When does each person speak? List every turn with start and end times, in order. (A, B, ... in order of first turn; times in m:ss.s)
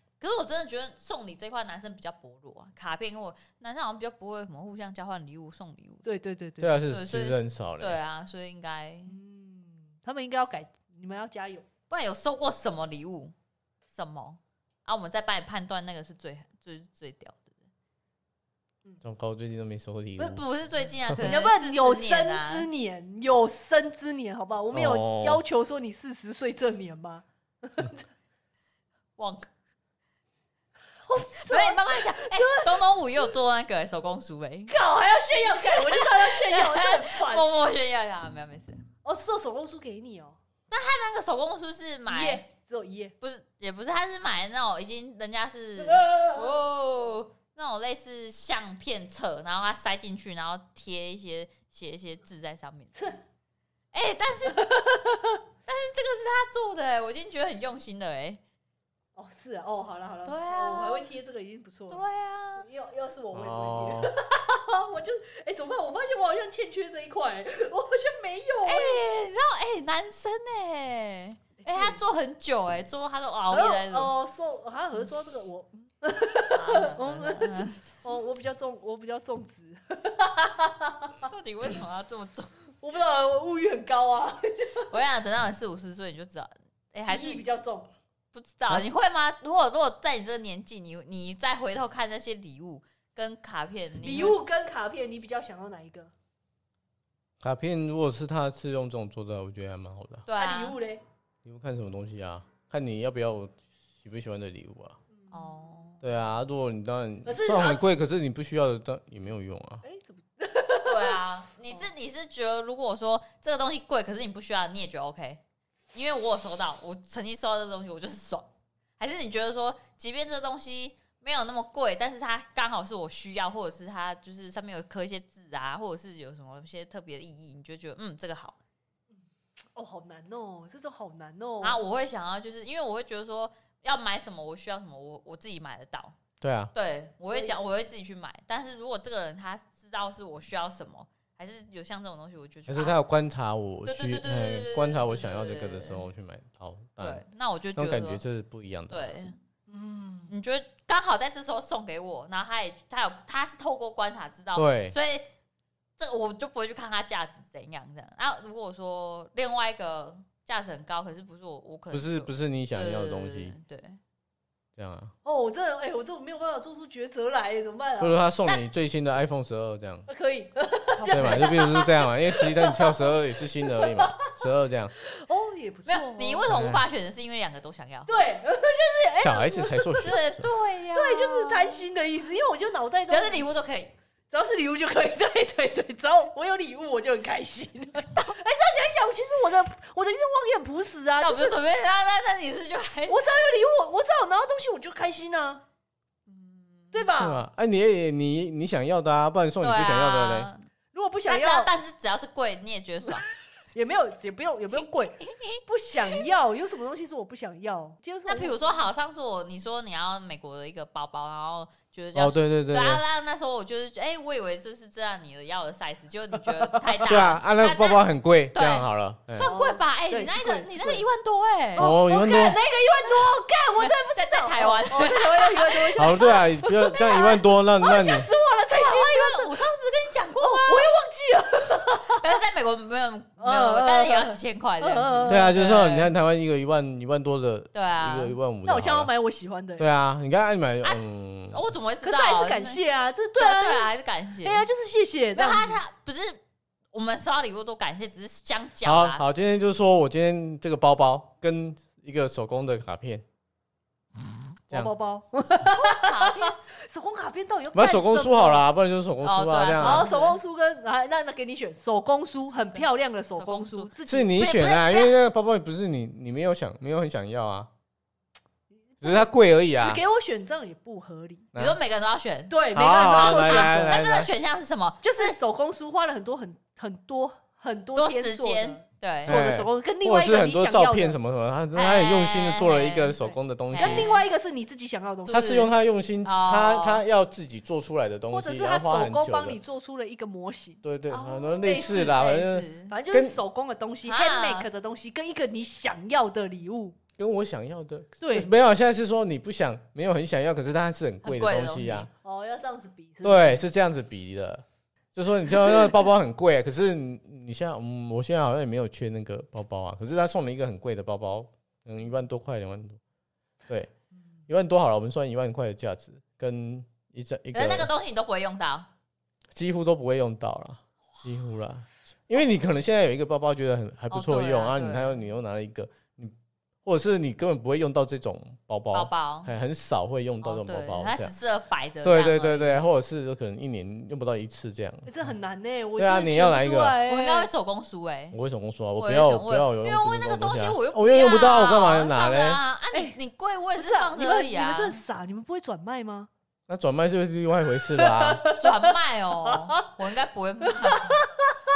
0:00.2-0:06.0 A
0:06.0-0:06.8 B
0:06.6-0:08.0 C
0:06.9-0:09.1 A
0:09.1-0:11.6 B
0:11.9-0:13.3 A
0:13.9-0:17.5 A
0:19.0-0:20.4 C
0:20.2-0:22.7 A
0:21.2-0:28.0 B
0:24.7-0:25.4 C
0:29.2-0:29.4 A
0:31.1-0:32.8 B
0:31.4-0:34.8 A
0:34.7-0:37.4 B
0:35.4-0:38.8 A
0:39.0-0:40.4 B
0:40.7-0:42.4 A
0:42.1-0:43.1 B
0:43.2-0:53.1 A
0:45.8-0:46.6 B
0:53.9-0:54.7 A
0:54.5-0:55.4 B
0:55.7-0:58.4 A
0:59.2-1:02.0 B
1:00.2-1:01.1 A
1:01.9-1:02.6 A
1:02.6-1:09.0 B
1:03.3-1:04.1 C
1:08.6-1:14.1 A
1:11.6-1:12.0 B
1:13.5-1:21.3 B
1:16.5-1:17.9 A
1:21.2-1:22.5 A
1:22.8-1:24.9 B
1:24.9-1:27.4 A
1:27.0-1:27.9 B
1:28.3-1:34.4 A
1:34.0-1:36.1 B
1:37.4-1:40.2 C
1:40.3-1:40.8 A
1:40.4-1:41.0 B
1:41.4-1:45.0 C
1:45.2-1:45.6 B
1:45.3-1:46.0 A
1:46.0-1:49.8 C
1:47.2-1:47.8 B
1:49.8-1:51.8 B
1:50.8-1:55.4 A
1:55.9-2:08.6 A
2:09.7-2:11.8 B
2:11.6-2:16.1 A
2:16.4-2:16.7 C
2:16.7-2:23.0 A
2:17.3-2:17.6 B
2:22.7-2:27.2 C
2:23.8-2:26.0 A
2:27.0-2:28.2 A
2:27.7-2:29.1 C
2:28.9-2:29.4 A
2:29.7-2:30.3 B
2:30.3-2:35.3 A
2:34.5-2:34.9 C
2:36.0-2:44.0 A
2:41.9-2:43.5 C
2:44.8-2:45.1 C
2:45.2-2:48.2 B
2:48.0-2:50.1 C
2:50.1-2:53.1 B
2:51.0-2:51.6 A
2:51.1-2:54.9 C
2:53.6-2:54.3 B
2:55.1-2:56.5 B
2:55.9-2:58.1 A
2:56.4-2:56.8 C
2:58.1-3:00.1 B
2:59.2-3:00.5 C
3:00.0-3:01.8 A
3:00.9-3:03.5 B
3:03.1-3:03.9 A
3:04.3-3:11.6 B
3:11.2-3:13.3 A
3:13.1-3:15.6 B
3:16.3-3:16.9 A
3:16.9-3:17.4 B
3:17.1-3:20.5 C
3:19.6-3:20.6 A
3:20.9-3:21.7 B
3:21.3-3:23.2 A
3:23.7-3:28.6 B
3:24.7-3:26.2 A
3:28.3-3:41.9 A
3:32.1-3:33.0 C
3:36.5-3:37.3 B
3:37.1-3:39.5 C
3:39.4-3:41.0 B
3:41.8-3:49.5 B
3:41.8-3:42.6 C
3:43.8-3:45.8 A
3:46.0-3:48.3 C
3:46.9-3:47.4 A
3:48.7-3:50.9 A
3:50.4-3:52.4 B
3:52.1-3:56.1 A
3:53.4-3:55.5 B
3:55.3-3:59.1 C
3:57.7-3:58.3 A
3:58.6-3:59.8 B
3:59.8-4:01.7 C
4:01.5-4:02.8 A
4:02.0-4:03.9 B
4:03.4-4:04.6 A
4:04.4-4:05.8 B
4:05.4-4:06.4 A
4:06.9-4:09.2 A
4:08.8-4:13.2 C
4:14.7-4:18.6 B
4:15.6-4:16.6 A
4:17.7-4:20.1 C
4:19.2-4:20.4 A
4:19.8-4:24.4 B
4:22.5-4:25.2 A
4:24.1-4:27.7 C
4:29.0-4:29.2 B
4:29.0-4:30.0 C
4:29.8-4:31.5 B
4:31.5-4:31.8 C
4:31.6-4:35.4 A
4:32.5-4:34.0 B
4:32.7-4:34.3 C
4:35.0-4:41.2 B
4:38.0-4:39.4 A
4:39.2-4:44.1 C
4:41.7-4:43.2 A
4:43.2-4:45.6 B
4:43.7-4:44.2 A
4:45.3-4:49.6 C
4:45.3-4:45.7 A
4:46.2-4:47.0 A
4:48.3-4:50.8 B
4:50.8-4:53.4 C
4:51.1-4:52.9 A
4:51.6-4:52.2 B
4:52.9-4:57.0 B
4:54.0-4:54.7 A
4:57.2-5:02.1 C
4:58.2-4:58.5 B
5:01.2-5:02.1 A
5:02.2-5:03.6 B
5:03.2-5:04.6 C
5:05.1-5:13.0 C
5:14.5-5:17.9 C
5:17.5-5:18.9 A
5:19.5-5:31.3 C
5:24.1-5:25.2 A
5:28.9-5:29.5 A
5:30.4-5:32.8 A
5:32.0-5:35.1 C
5:35.0-5:37.5 B
5:36.0-5:37.0 C
5:37.1-5:38.4 A
5:38.3-5:42.6 C
5:39.0-5:45.0 A
5:43.7-5:46.3 B
5:46.7-5:48.4 C
5:48.0-5:48.8 B
5:48.6-5:51.2 A
5:49.5-5:49.8 B
5:50.8-5:51.5 B